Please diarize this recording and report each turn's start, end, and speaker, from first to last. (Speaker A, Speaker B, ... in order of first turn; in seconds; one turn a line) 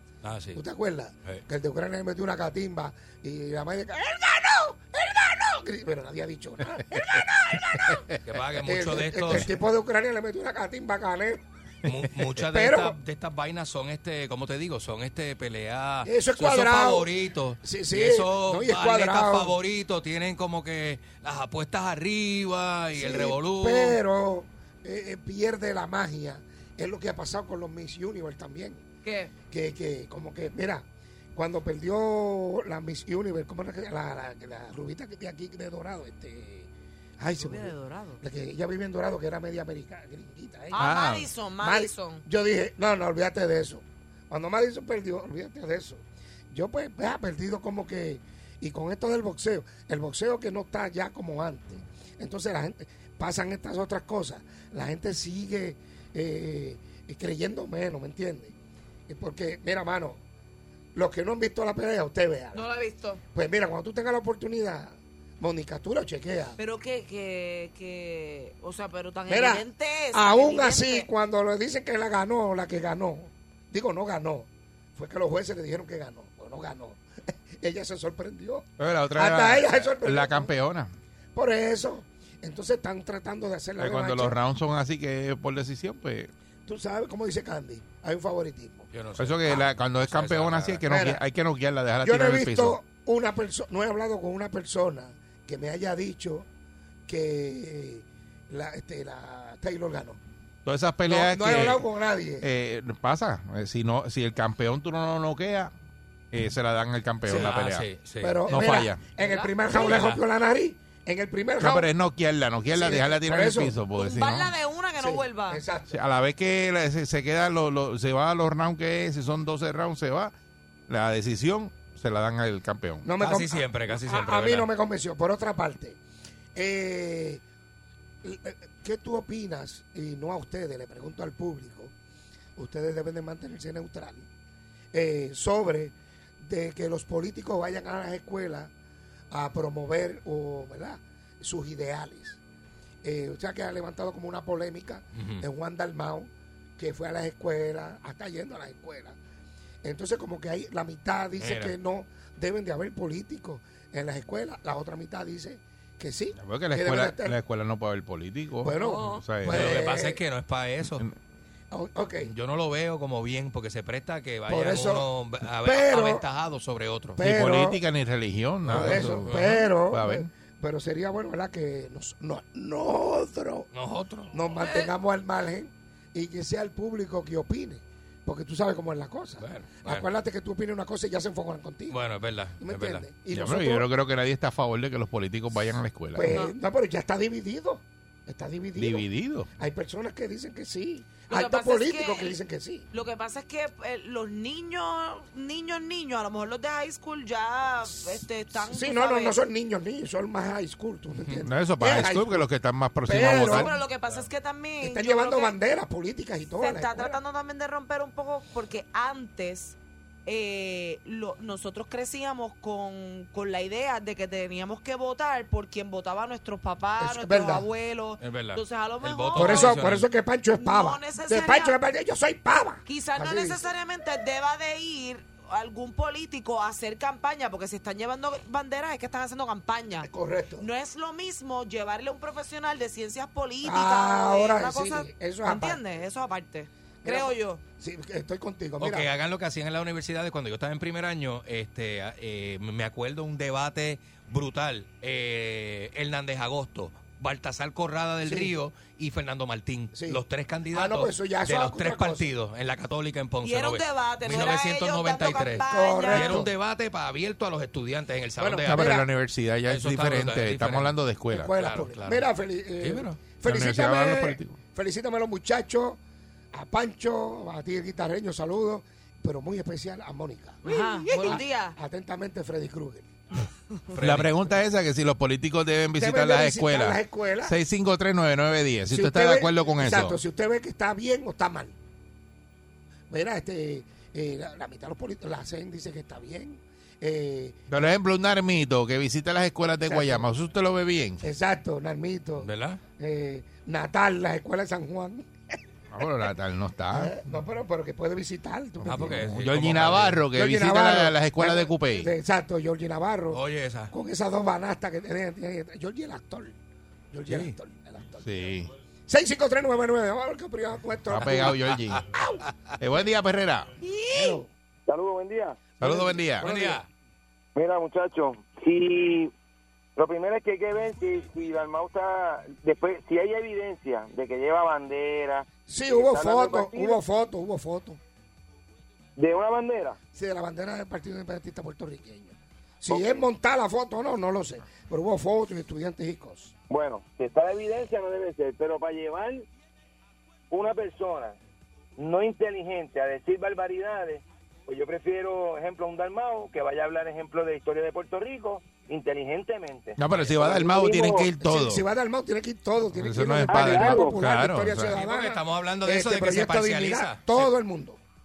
Speaker A: 0.2-0.6
Speaker B: 0.5-11.4
Speaker A: 8.2-9.5
Speaker A: 11.8-24.0
Speaker B: 12.4-13.0
Speaker B: 16.0-19.6
Speaker B: 22.9-28.8
Speaker C: 29.0-29.3
Speaker B: 29.5-40.9
Speaker C: 37.4-38.2
Speaker C: 40.7-42.2
Speaker D: 40.8-41.3
Speaker B: 41.6-58.5
Speaker B: 59.1-60.2
Speaker B: 60.9-62.6
Speaker C: 62.5-63.2
Speaker B: 63.3-66.6
Speaker C: 66.6-71.1
Speaker B: 69.3-77.0
Speaker B: 77.6-80.5
Speaker D: 78.8-80.9
Speaker B: 81.3-84.4
Speaker D: 83.8-86.3
Speaker B: 86.7-88.9
Speaker A: 88.9-90.8
Speaker D: 89.2-92.8
Speaker B: 90.9-91.2
Speaker B: 92.0-96.5
Speaker B: 97.1-100.2
Speaker D: 100.6-101.8
Speaker B: 101.0-102.5
Speaker D: 102.4-105.7
Speaker D: 106.3-107.9
Speaker B: 107.2-107.5
Speaker A: 107.3-108.5
Speaker B: 108.2-111.9
Speaker D: 108.5-109.0
Speaker C: 109.2-109.6
Speaker A: 109.7-110.2
Speaker D: 111.6-114.5
Speaker B: 112.7-113.8
Speaker C: 113.9-115.6
Speaker B: 114.9-116.0
Speaker D: 115.9-120.3
Speaker D: 120.9-123.0
Speaker B: 123.0-126.0
Speaker A: 123.2-124.7
Speaker B: 126.5-127.4
Speaker B: 128.2-131.9
Speaker B: 132.6-134.2
Speaker B: 134.9-138.7
Speaker B: 139.3-142.4
Speaker B: 143.0-149.2
Speaker A: 145.1-145.4
Speaker B: 149.8-157.4
Speaker A: 151.4-151.7
Speaker D: 156.4-159.6
Speaker B: 158.6-160.2
Speaker A: 159.4-161.0
Speaker B: 161.7-162.3
Speaker A: 162.2-167.2
Speaker B: 164.5-165.1
Speaker B: 165.6-166.2
Speaker B: 167.2-167.8
Speaker D: 167.2-170.3
Speaker A: 168.6-169.6
Speaker B: 168.7-173.7
Speaker A: 173.7-174.9
Speaker B: 174.3-182.0
Speaker A: 179.4-180.1
Speaker A: 181.9-183.1
Speaker B: 182.6-183.9
Speaker D: 183.3-186.3
Speaker B: 185.5-192.9
Speaker C: 186.2-186.5
Speaker D: 188.8-189.5
Speaker C: 191.3-192.4
Speaker C: 192.9-199.4
Speaker B: 198.5-202.5
Speaker A: 201.2-201.4
Speaker D: 201.4-203.7
Speaker B: 203.0-203.7
Speaker C: 203.1-205.6
Speaker B: 204.8-207.2
Speaker C: 206.6-219.9
Speaker B: 217.0-217.7
Speaker A: 218.2-220.1
Speaker B: 219.3-223.7
Speaker C: 220.5-221.8
Speaker C: 222.8-237.6
Speaker B: 230.0-230.7
Speaker B: 233.6-235.8
Speaker B: 237.0-239.1
Speaker A: 238.8-258.9
Speaker B: 248.2-248.6
Speaker B: 249.9-252.3
Speaker C: 253.4-256.5
Speaker B: 255.5-256.5
Speaker B: 258.4-259.1
Speaker D: 258.7-261.5
Speaker A: 259.6-260.9
Speaker B: 261.3-266.0
Speaker A: 261.5-262.3
Speaker A: 262.8-263.2
Speaker D: 263.4-264.5
Speaker B: 266.5-273.1
Speaker C: 270.6-271.8
Speaker A: 273.9-274.4
Speaker D: 274.0-280.2
Speaker B: 276.0-277.6
Speaker B: 278.9-281.8
Speaker B: 283.1-287.9
Speaker D: 287.7-291.2
Speaker B: 289.8-290.3
Speaker B: 291.2-295.3
Speaker A: 292.4-292.8
Speaker D: 295.9-297.2
Speaker B: 296.9-299.4
Speaker D: 298.8-302.1
Speaker A: 298.8-300.2
Speaker B: 300.3-306.6
Speaker A: 303.3-303.9
Speaker B: 307.1-308.2
Speaker A: 307.3-307.5
Speaker D: 308.2-308.7
Speaker B: 309.1-311.6
Speaker D: 311.1-312.0
Speaker A: 311.2-311.9
Speaker D: 312.8-313.7
Speaker C: 313.9-314.4
Speaker B: 314.1-314.5
Speaker E: 314.9-315.9
Speaker D: 315.8-316.5
Speaker B: 315.9-316.8
Speaker A: 316.4-316.9
Speaker E: 317.5-319.3
Speaker E: 319.9-327.0
Speaker B: 325.7-328.0
Speaker E: 329.1-330.0
Speaker B: 330.1-336.5
Speaker E: 332.9-333.3
Speaker E: 336.7-339.5
Speaker E: 340.5-341.4
Speaker E: 342.0-351.3
Speaker D: 350.0-351.8
Speaker A: 350.0-350.5
Speaker B: 351.4-358.0
Speaker D: 352.9-355.0
Speaker E: 353.5-354.2
Speaker A: 354.9-357.5